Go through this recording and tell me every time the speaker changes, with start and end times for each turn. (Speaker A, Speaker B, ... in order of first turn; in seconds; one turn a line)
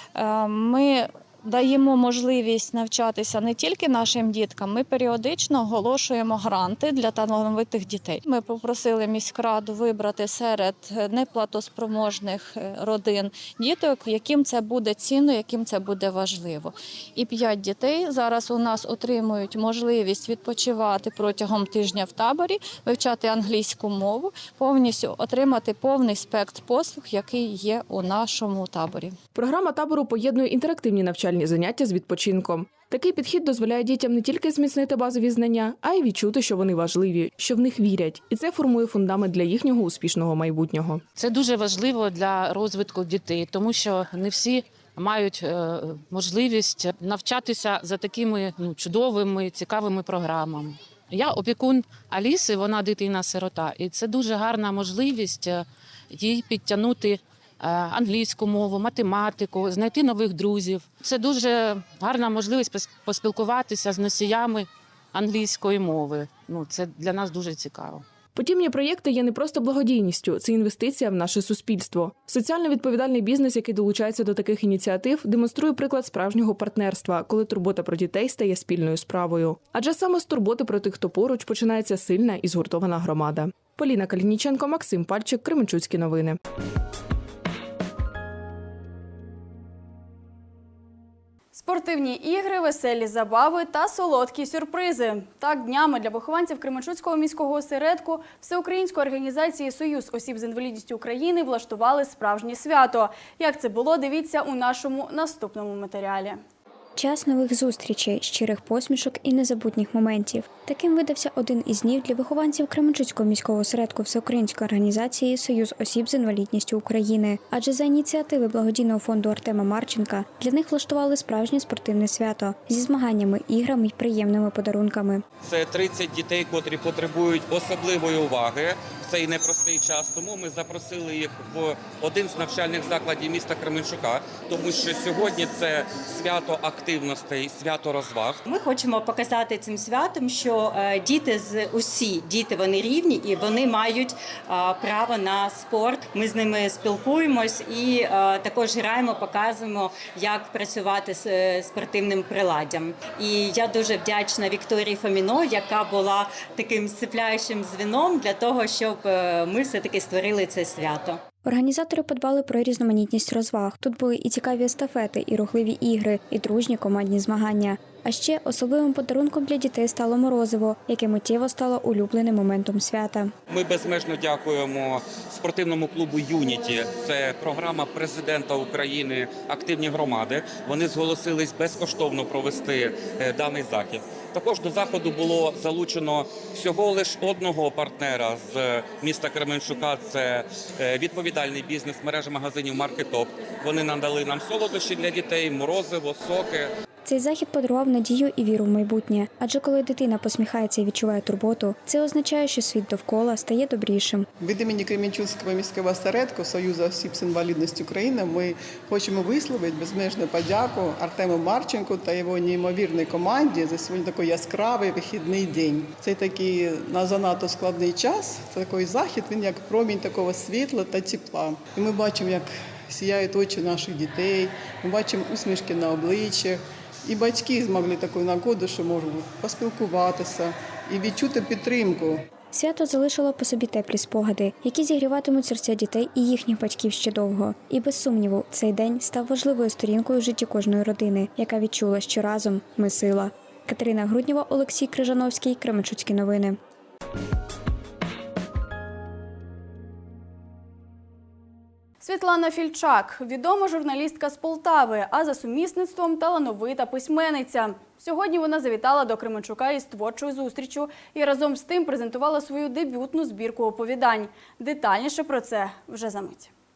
Speaker A: 0.1-29.2
Speaker B: 29.3-41.0
Speaker C: 41.2-68.0
Speaker B: 68.3-86.4
Speaker D: 91.5-106.4
Speaker E: 107.0-125.2
Speaker F: 125.5-137.3
Speaker G: 125.5-138.2
Speaker F: 138.1-161.2
Speaker E: 161.4-173.3
Speaker F: 173.5-194.1
Speaker G: 173.8-174.2
Speaker G: 176.2-178.2
Speaker G: 178.8-179.4
Speaker G: 180.4-180.9
Speaker G: 181.5-184.0
Speaker G: 185.4-187.1
Speaker G: 187.9-190.4
Speaker G: 191.1-196.7
Speaker E: 197.1-204.3
Speaker H: 204.4-232.2
Speaker E: 232.5-246.6
Speaker D: 252.0-266.5